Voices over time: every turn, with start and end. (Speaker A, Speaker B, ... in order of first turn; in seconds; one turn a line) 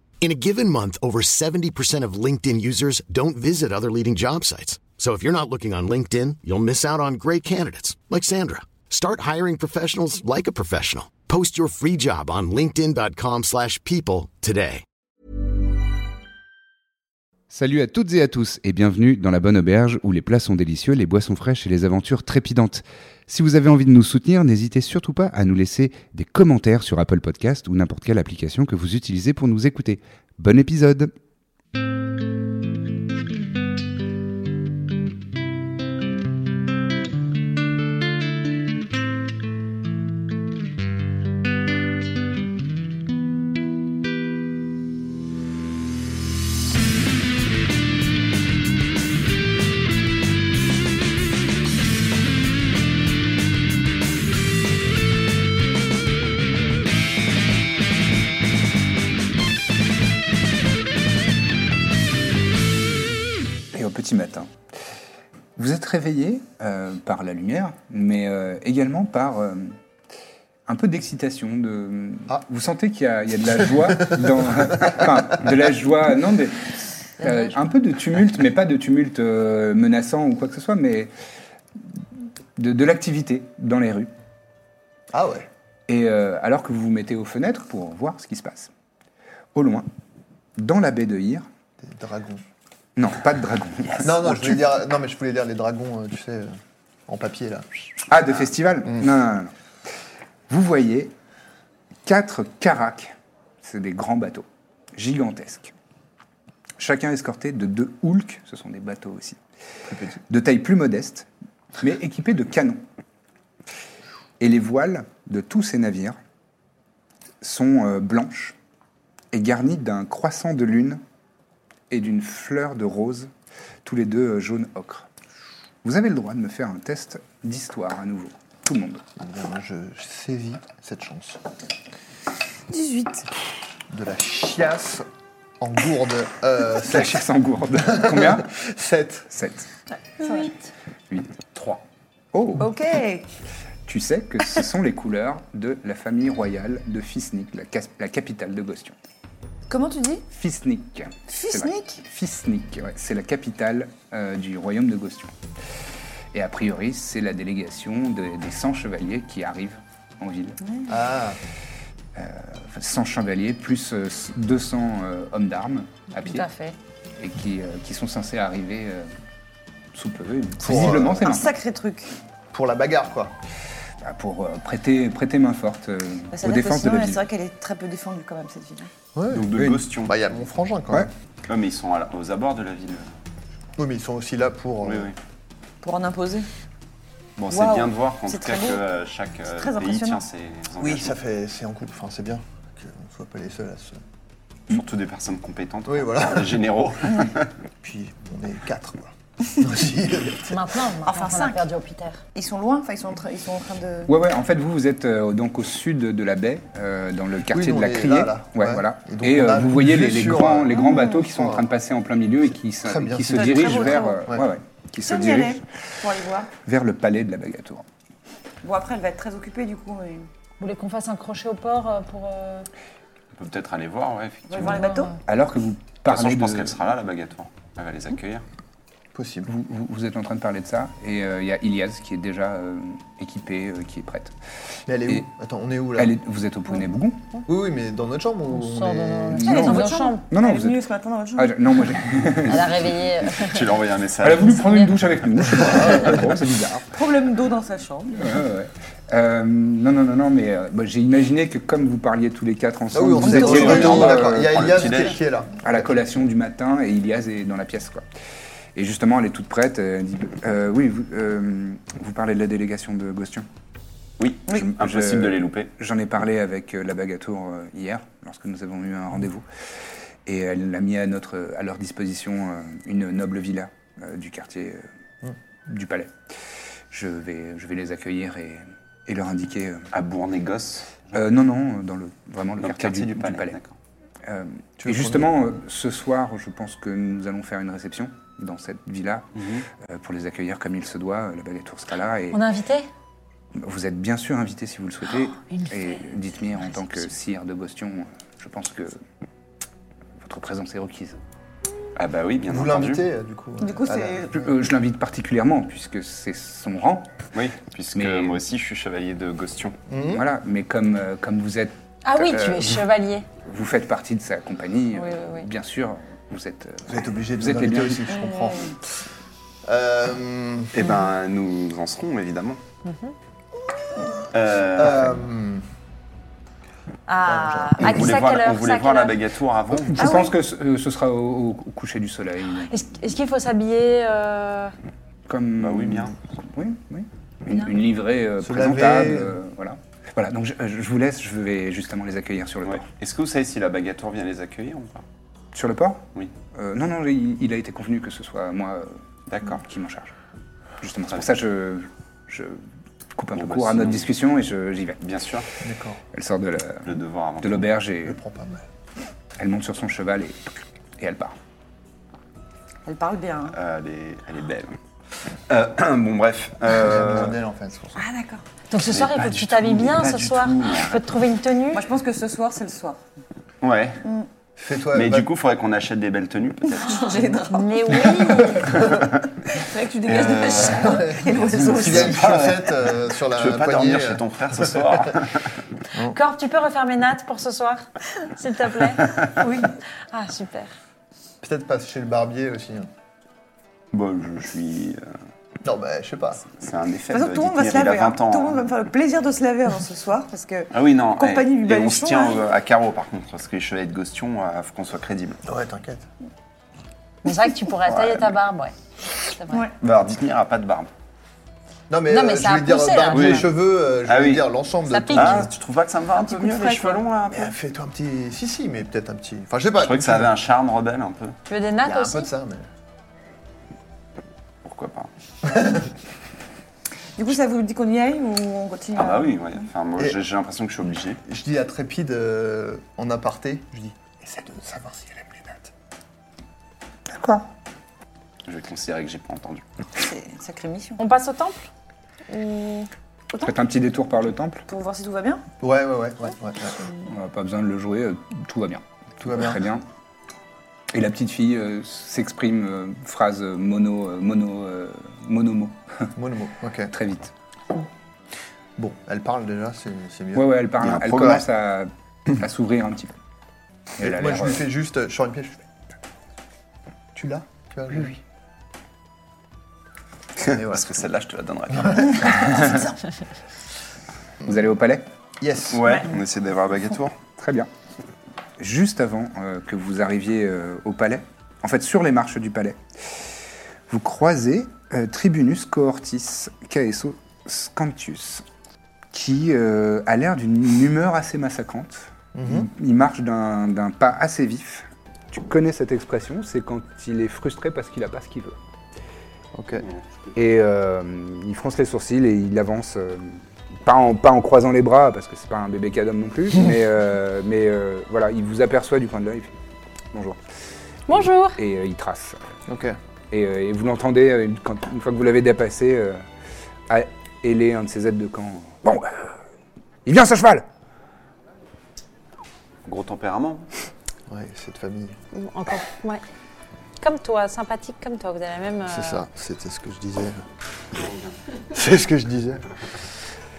Speaker A: 0.2-14.8
Speaker B: 17.5-31.1
Speaker C: 63.7-64.5
Speaker C: 65.5-69.8
Speaker C: 70.7-81.1
Speaker C: 82.5-84.1
Speaker D: 85.1-85.5
Speaker C: 85.9-88.7
Speaker C: 89.5-89.9
Speaker C: 90.6-91.5
Speaker D: 91.8-92.4
Speaker C: 93.0-94.6
Speaker E: 93.8-94.2
Speaker D: 94.0-96.5
Speaker D: 97.1-98.0
Speaker C: 98.1-99.5
Speaker C: 100.5-101.1
Speaker C: 102.0-105.7
Speaker C: 106.8-109.4
Speaker D: 109.9-110.2
Speaker C: 110.3-112.8
Speaker C: 114.4-116.2
Speaker C: 117.4-118.5
Speaker C: 119.3-121.0
Speaker C: 121.9-123.3
Speaker C: 123.8-125.1
Speaker C: 125.8-129.0
Speaker D: 129.2-131.4
Speaker F: 132.7-133.3
Speaker D: 133.9-135.1
Speaker D: 135.6-137.2
Speaker C: 136.8-138.5
Speaker D: 137.9-139.3
Speaker C: 139.3-139.7
Speaker F: 140.2-140.5
Speaker C: 141.1-142.7
Speaker F: 142.6-143.3
Speaker C: 143.8-148.9
Speaker F: 149.7-150.2
Speaker C: 150.3-155.3
Speaker F: 151.3-152.0
Speaker C: 156.3-160.6
Speaker D: 160.9-161.4
Speaker C: 162.2-166.4
Speaker G: 166.2-166.7
Speaker C: 167.2-169.1
Speaker C: 169.9-171.5
Speaker D: 170.6-171.3
Speaker F: 171.2-172.1
Speaker D: 172.5-173.3
Speaker C: 174.0-177.2
Speaker F: 176.3-178.9
Speaker D: 179.1-181.1
Speaker E: 179.3-180.1
Speaker E: 181.5-183.1
Speaker D: 183.8-185.1
Speaker E: 184.8-185.2
Speaker F: 185.8-186.5
Speaker E: 187.4-191.2
Speaker F: 187.5-188.8
Speaker F: 189.5-190.2
Speaker D: 190.8-194.0
Speaker E: 194.7-197.5
Speaker D: 195.9-196.6
Speaker D: 197.8-200.6
Speaker G: 200.5-202.2
Speaker F: 201.0-201.6
Speaker F: 202.3-204.1
Speaker C: 204.1-215.6
Speaker D: 207.5-211.6
Speaker F: 210.9-211.2
Speaker D: 212.8-214.5
Speaker F: 213.3-214.3
Speaker F: 215.0-216.5
Speaker C: 216.6-217.8
Speaker F: 218.6-220.3
Speaker G: 220.6-222.7
Speaker E: 223.3-224.8
Speaker F: 224.5-225.1
Speaker G: 224.7-225.1
Speaker C: 225.2-226.9
Speaker E: 226.1-228.4
Speaker D: 229.1-229.5
Speaker C: 229.5-234.3
Speaker D: 234.9-236.1
Speaker C: 235.9-237.3
Speaker D: 237.4-239.6
Speaker G: 238.5-240.2
Speaker C: 239.4-240.8
Speaker F: 239.4-241.6
Speaker C: 241.3-242.9
Speaker G: 242.4-243.6
Speaker E: 243.3-244.6
Speaker C: 244.2-246.9
Speaker G: 244.4-244.9
Speaker F: 246.9-248.3
Speaker C: 248.1-254.7
Speaker D: 252.9-255.9
Speaker F: 253.2-253.6
Speaker E: 253.3-255.2
Speaker C: 255.6-258.0
Speaker C: 258.7-263.5
Speaker E: 264.2-265.7
Speaker C: 264.5-269.4
Speaker C: 270.2-274.8
Speaker C: 275.6-276.1
Speaker C: 276.9-279.9
Speaker E: 279.9-281.2
Speaker C: 281.1-283.6
Speaker E: 282.6-283.7
Speaker C: 284.2-292.4
Speaker D: 284.8-285.3
Speaker E: 289.3-289.7
Speaker G: 292.3-292.9
Speaker C: 293.5-299.0
Speaker G: 295.4-296.1
Speaker G: 296.6-297.1
Speaker C: 300.2-301.2
Speaker E: 301.9-303.1
Speaker D: 302.5-304.5
Speaker F: 303.6-304.3
Speaker C: 304.3-307.1
Speaker E: 307.3-309.8
Speaker C: 307.9-308.4
Speaker D: 309.9-310.2
Speaker C: 310.1-312.8
Speaker G: 312.0-313.2
Speaker C: 313.4-318.2
Speaker G: 314.9-315.4
Speaker D: 316.9-318.7
Speaker F: 318.1-318.7
Speaker D: 319.6-320.8
Speaker E: 320.7-322.6
Speaker G: 322.8-323.1
Speaker E: 324.3-325.2
Speaker D: 324.7-325.6
Speaker G: 327.1-329.2
Speaker D: 327.3-328.2
Speaker E: 327.8-330.2
Speaker C: 329.9-332.8
Speaker F: 330.0-330.3
Speaker G: 332.7-334.7
Speaker C: 335.3-342.9
Speaker E: 335.6-336.1
Speaker D: 338.4-339.4
Speaker E: 342.6-345.0
Speaker C: 345.5-350.1
Speaker E: 349.3-349.6
Speaker C: 350.8-352.6
Speaker C: 353.1-355.0
Speaker E: 353.4-354.1
Speaker E: 355.0-355.5
Speaker D: 355.6-356.0
Speaker C: 356.1-358.2
Speaker E: 356.8-357.7
Speaker D: 358.0-358.6
Speaker C: 359.4-360.4
Speaker C: 361.0-361.4
Speaker F: 362.8-363.6
Speaker E: 363.5-364.8
Speaker E: 365.5-367.4
Speaker D: 366.7-368.0
Speaker F: 367.9-368.4
Speaker G: 368.7-371.8
Speaker E: 368.8-371.2
Speaker F: 371.7-373.0
Speaker E: 373.6-374.0
Speaker D: 374.6-375.3
Speaker E: 374.9-377.0
Speaker F: 376.8-378.8
Speaker G: 377.5-378.7
Speaker F: 379.4-382.2
Speaker E: 380.1-385.5
Speaker D: 380.8-385.1
Speaker G: 386.1-389.3
Speaker F: 389.4-389.7
Speaker G: 390.1-390.7
Speaker D: 391.4-392.9
Speaker E: 393.9-395.1
Speaker D: 395.6-396.4
Speaker E: 396.5-398.6
Speaker F: 397.1-402.4
Speaker E: 400.7-405.4
Speaker D: 405.4-406.0
Speaker G: 407.2-408.7
Speaker E: 407.9-408.3
Speaker G: 409.3-409.7
Speaker E: 409.8-410.9
Speaker D: 411.9-415.5
Speaker G: 412.1-413.5
Speaker E: 413.1-413.5
Speaker E: 414.0-414.5
Speaker G: 414.9-415.5
Speaker E: 415.1-417.5
Speaker F: 416.1-417.0
Speaker D: 417.3-420.3
Speaker E: 419.8-421.4
Speaker G: 421.5-422.3
Speaker F: 421.9-422.1
Speaker D: 422.1-422.6
Speaker E: 424.6-425.1
Speaker D: 425.4-425.9
Speaker F: 427.2-429.5
Speaker E: 428.9-431.2
Speaker D: 431.2-435.7
Speaker C: 437.1-437.5
Speaker E: 438.4-439.6
Speaker F: 440.0-441.0
Speaker G: 441.0-441.7
Speaker F: 442.3-442.8
Speaker G: 442.3-442.9
Speaker C: 443.4-444.6
Speaker F: 444.7-445.4
Speaker D: 445.6-446.8
Speaker C: 447.1-449.8
Speaker D: 449.2-449.6
Speaker C: 450.9-456.1
Speaker D: 456.1-456.9
Speaker C: 456.9-457.3
Speaker D: 458.8-460.5
Speaker C: 460.3-463.1
Speaker E: 460.8-461.4
Speaker C: 464.0-464.7
Speaker D: 464.0-465.6
Speaker D: 467.1-468.2
Speaker E: 470.4-472.8
Speaker D: 470.5-470.8
Speaker D: 471.7-472.2
Speaker F: 472.3-472.9
Speaker C: 474.4-475.1
Speaker D: 475.4-475.8
Speaker E: 475.7-477.1
Speaker C: 477.4-477.7
Speaker C: 478.6-483.2
Speaker C: 483.9-488.4
Speaker C: 489.1-498.6
Speaker D: 492.3-492.7
Speaker D: 499.5-499.9
Speaker C: 500.3-509.6
Speaker C: 510.1-510.4
Speaker G: 511.1-511.6
Speaker C: 511.1-512.4
Speaker D: 512.7-513.0
Speaker C: 513.3-516.2
Speaker C: 516.9-519.4
Speaker C: 520.0-520.6
Speaker E: 522.9-523.7
Speaker D: 524.3-525.2
Speaker G: 525.3-526.2
Speaker G: 527.0-529.2
Speaker D: 528.9-530.4
Speaker D: 531.7-532.6